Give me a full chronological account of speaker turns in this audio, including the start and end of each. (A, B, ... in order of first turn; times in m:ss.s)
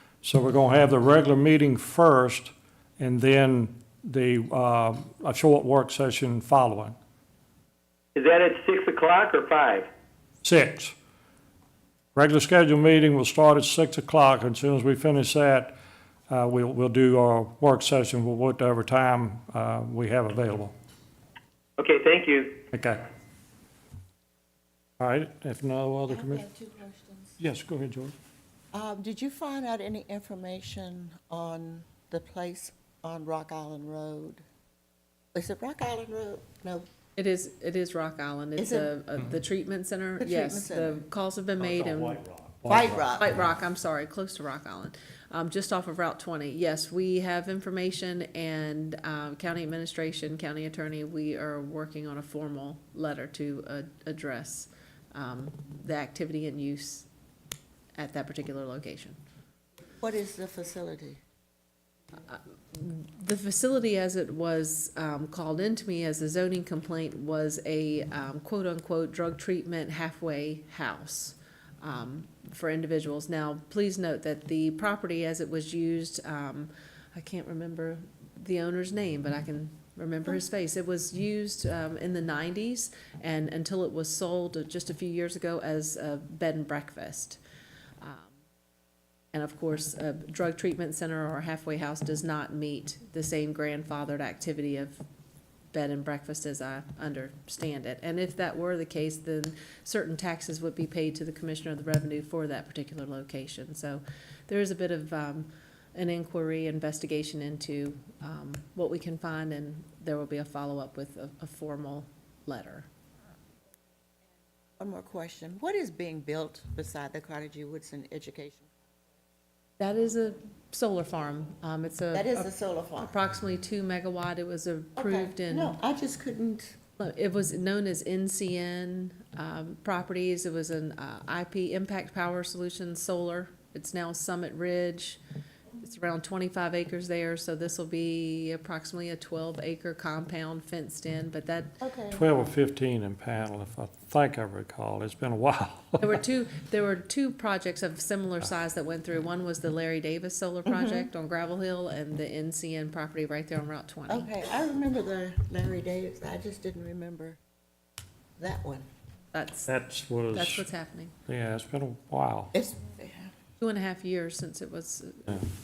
0:00.2-0:06.9 A
0:08.2-0:09.9 B
0:10.4-0:10.9 A
0:12.2-0:15.7 A
0:16.3-0:20.8 A
0:21.8-0:22.6 B
0:22.7-0:23.1 A
0:25.0-0:26.4 A
0:26.1-0:27.4 C
0:27.4-0:28.2 A
0:28.7-0:34.4 C
0:35.3-0:36.8 C
0:37.2-0:42.2 D
0:38.6-0:38.9 C
0:40.2-0:40.9 C
0:41.8-0:43.1 A
0:42.6-0:43.3 C
0:43.0-0:57.1 D
0:57.9-0:59.2 D
1:00.0-1:01.2 C
1:02.3-1:27.4 D
1:28.0-1:28.4 D
1:29.3-1:35.0 D
1:35.7-1:52.9 D
1:54.8-1:58.9 C
1:59.8-2:05.8 D
2:02.1-2:03.1 C
2:05.0-2:06.8 C
2:07.0-2:15.2 D
2:15.8-2:21.8 D
2:21.8-2:22.2 C
2:22.1-2:26.0 A
2:26.0-2:34.3 D
2:30.6-2:31.0 C
2:34.1-2:37.4 C
2:38.4-2:38.9 C
2:39.3-2:39.7 D
2:39.7-2:40.7 A
2:40.3-2:41.1 D
2:41.2-2:42.5 A
2:42.5-2:43.3 C
2:43.6-2:45.4 D